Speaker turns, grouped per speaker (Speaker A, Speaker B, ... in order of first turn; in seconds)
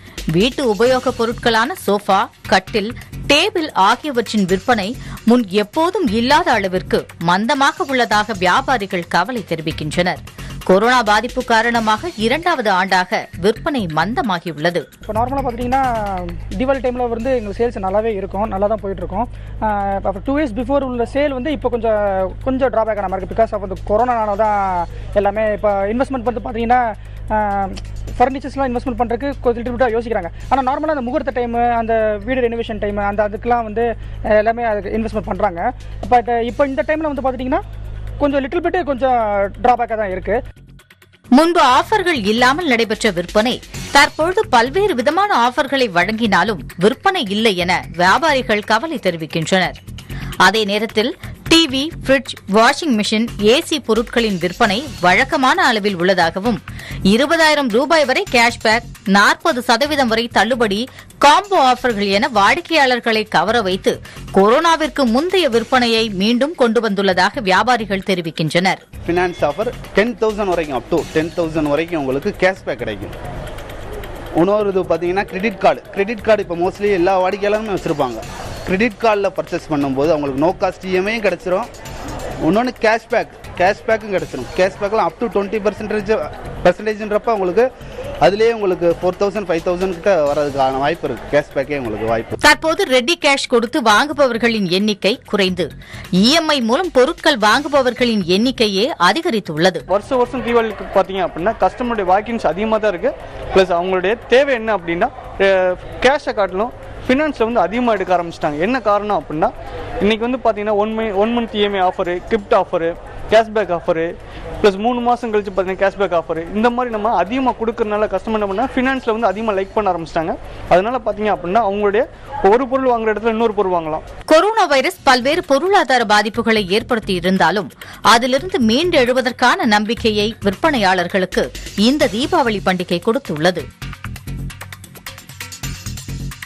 Speaker A: 0.3-14.8, 41.4-49.8, 50.4-56.6, 57.1-68.8, 92.4-95.7, 96.2-99.8, 124.3-133.6
Speaker B: 15.1-37.6, 38.2-40.4
Speaker C: 69.0-73.2, 74.4-81.7, 82.4-87.7, 88.2-92.3
Speaker D: 99.9-114.1, 114.6-124.0